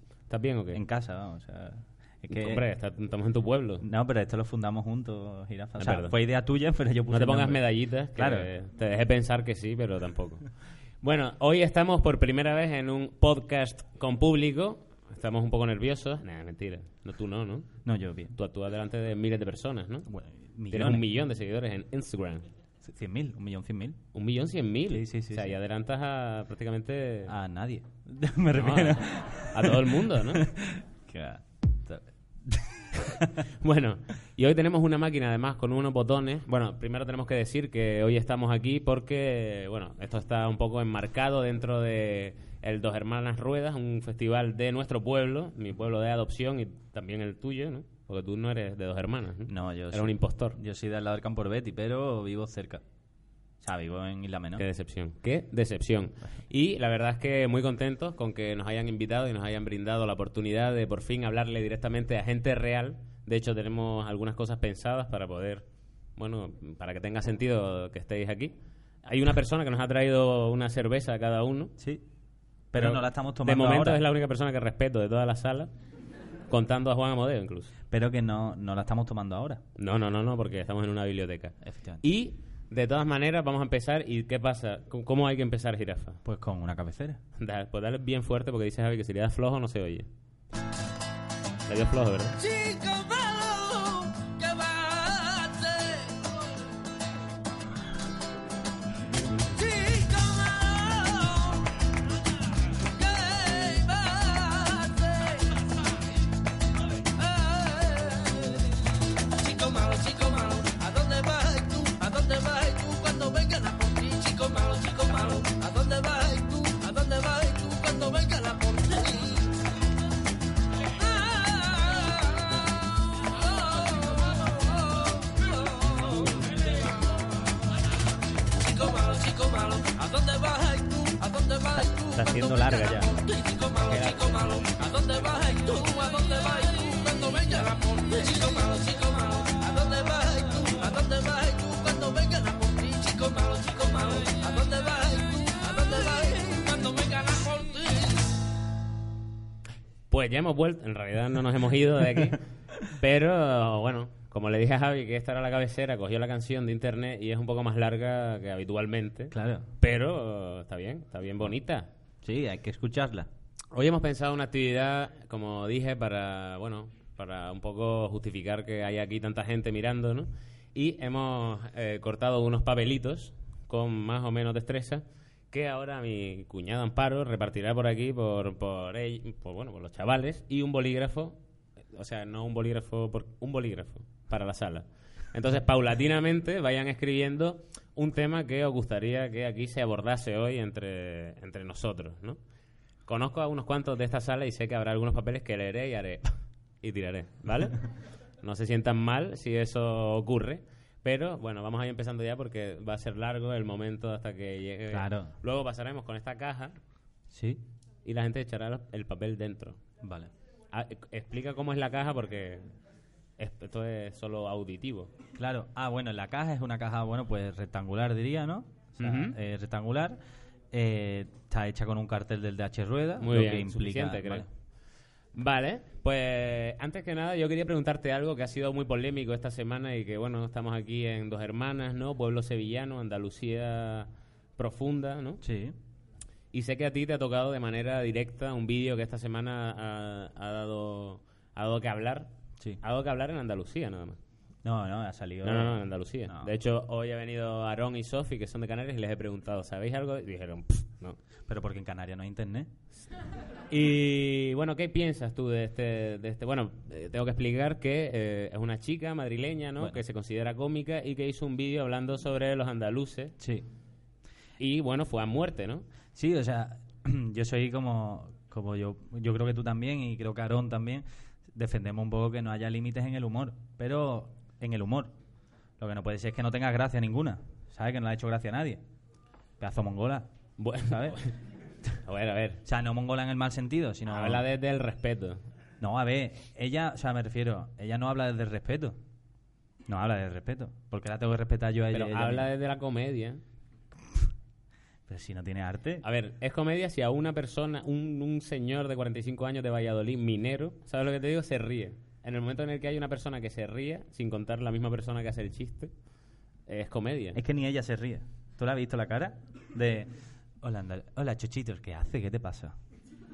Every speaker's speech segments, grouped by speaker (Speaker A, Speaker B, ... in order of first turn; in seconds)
Speaker A: 0.3-0.8, 2.3-3.8, 5.8-6.2, 7.1-10.5, 11.0-17.7, 18.4-20.1, 20.7-22.5, 24.1-27.3, 28.6-30.4, 33.6-50.6, 54.6-68.5, 69.1-71.8, 72.8-75.7, 76.5-77.7, 79.8-86.2, 87.4-90.1, 91.7-92.4, 133.9-134.2, 150.1-161.9, 163.7-181.4, 181.9-192.4, 193.1-196.3, 196.8-197.9, 198.4-206.8, 208.0-209.8, 210.7-212.7, 213.4-215.1, 219.0-219.4, 223.2-224.5, 225.3-235.4, 236.5-244.2, 245.4-251.2, 253.7-263.4, 264.6-265.9, 280.6-281.4, 282.0-282.6, 284.1-285.4, 291.9-293.4, 296.0-305.9, 306.7-307.4
Speaker B: 0.7-2.6, 3.8-7.6, 8.1-8.5, 17.8-18.4, 20.1-21.1, 22.8-24.0, 24.9-25.6, 27.3-33.4, 49.5-52.8, 53.6-54.6, 71.8-72.0, 72.7-74.0, 77.9-79.6, 81.6-82.0, 86.2-87.2, 131.8-133.2, 159.3-159.7, 162.2-163.3, 204.9-205.3, 207.3-207.6, 210.0-210.3, 215.4-220.2, 220.7-224.5, 235.4-235.8, 244.6-246.5, 251.5-252.7, 263.4-263.6, 266.1-275.1, 275.8-278.8, 279.6-280.3, 280.9-281.2, 282.6-284.5, 285.8-289.0, 289.9-292.5, 295.1-296.0, 307.3-312.8
Speaker C: 92.4-96.6, 99.5-101.7, 102.8-105.7, 107.2-108.8, 109.4-119.6, 121.0-127.4, 128.6-148.2